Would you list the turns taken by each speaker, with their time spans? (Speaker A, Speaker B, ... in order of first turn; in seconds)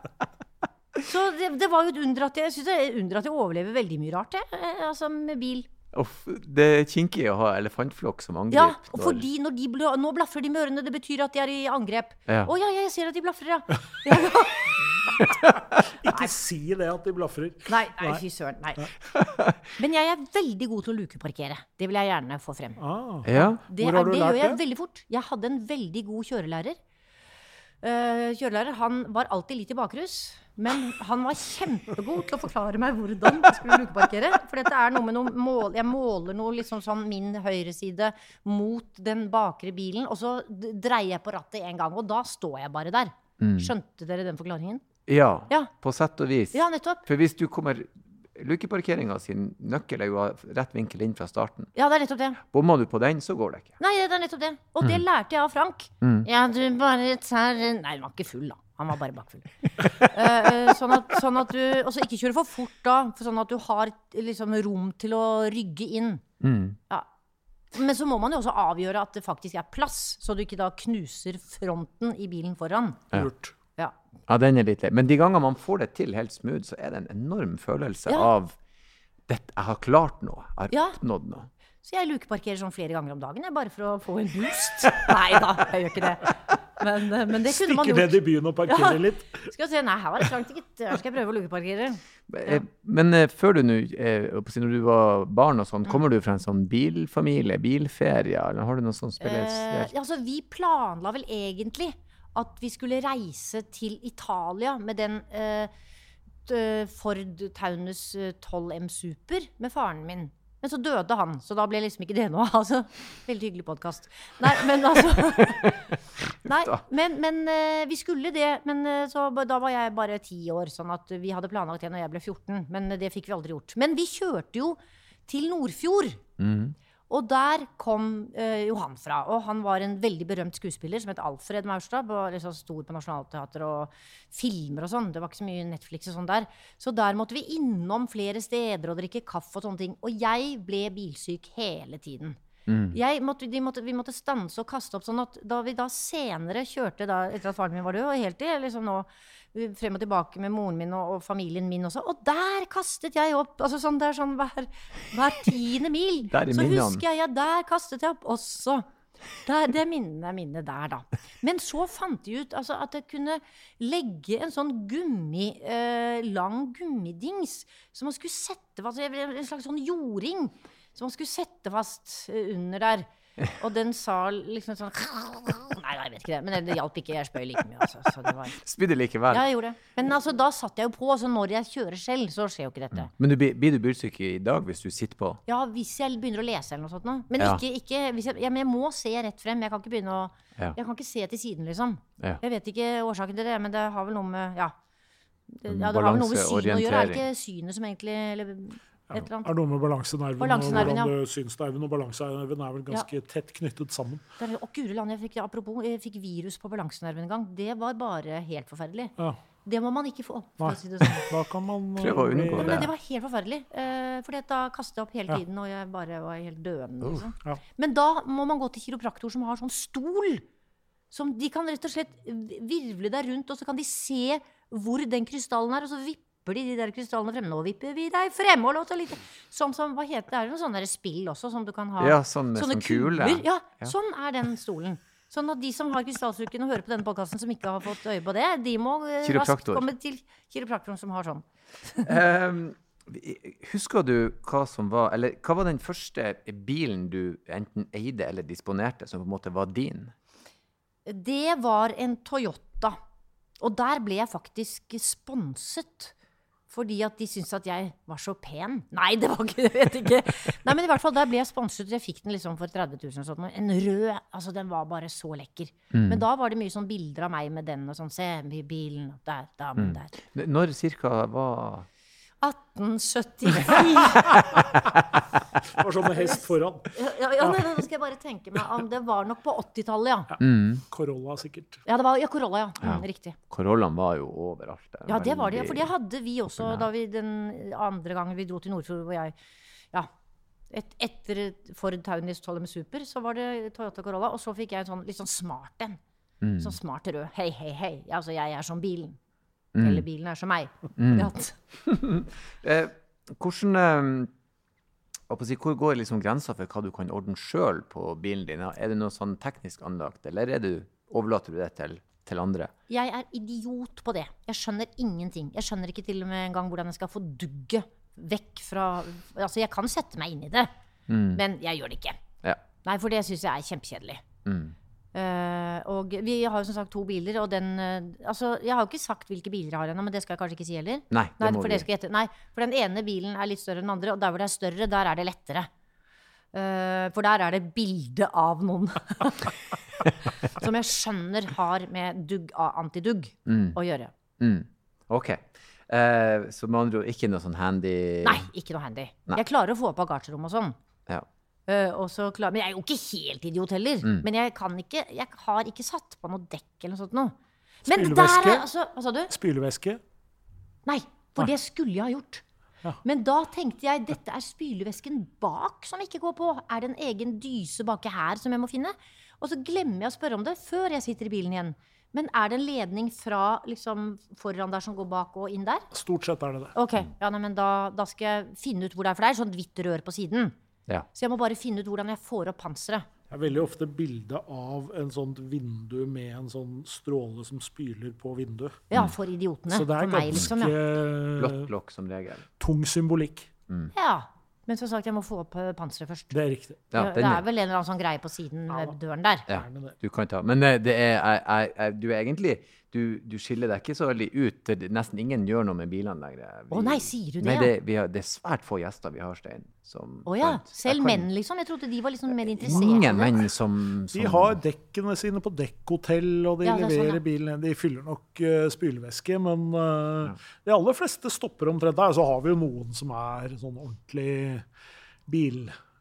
Speaker A: 1.0-5.7, 8.5-15.4, 17.7-18.9, 19.8-22.8, 23.4-26.8, 27.8-44.8, 46.5-47.0, 51.7-52.4, 53.8-66.2, 67.7-73.1, 80.7-81.0, 81.8-92.6, 99.2-105.7, 106.5-126.2, 127.1-142.4, 142.9-178.6, 179.3-183.1, 185.5-194.7, 195.5-199.5, 200.4-201.1, 204.4-209.1, 209.6-211.3, 212.6-220.4, 221.1-242.1, 251.1-252.9, 253.6-256.1, 256.7-270.1, 272.4-274.4, 276.0-280.3, 281.9-283.4, 285.1-289.3, 290.7-296.0, 296.6-299.2, 299.8-301.6, 312.9-320.7, 321.3-322.2, 322.8-324.2, 325.1-335.7, 336.5-339.6, 340.4-344.1, 348.2-350.8, 351.7-359.3, 360.9-362.4, 363.0-375.9, 376.7-380.5, 381.1-383.1, 388.9-390.8, 393.9-396.3, 396.9-399.5, 406.7-407.7, 410.2-413.4, 416.6-417.2
Speaker B: 5.9-9.2, 19.1-19.7, 23.2-23.6, 43.4-43.7, 45.1-51.7, 52.5-53.7, 56.0-56.3, 66.4-66.8, 74.3-78.6, 79.3-81.5, 92.3-99.9, 126.4-126.8, 142.7-143.0, 156.3-157.0, 178.6-179.4, 182.9-185.4, 195.7-197.2, 212.0-212.9, 232.0-233.9, 239.2-239.9, 242.0-250.1, 265.9-266.2, 269.8-271.9, 274.3-275.2, 280.4-280.8, 282.8-285.9, 286.5-286.9, 296.4-296.7, 299.7-300.1, 300.9-304.3, 305.3-312.7, 321.1-321.4, 324.4-324.7, 331.1-331.9, 343.4-343.8, 344.4-348.5, 391.4-392.5, 396.9-397.4, 399.5-411.2, 412.6-414.6
Speaker C: 15.8-18.2, 22.8-24.6, 73.1-73.5, 87.4-89.4, 199.1-204.2, 210.6-212.9, 275.7-277.7, 280.9-281.8, 357.9-358.6, 359.3-360.0, 375.9-376.7, 383.3-388.8, 389.7-391.7, 392.6-393.5, 396.3-396.8, 398.7-398.9, 399.5-399.9, 414.1-424.6, 425.3-425.7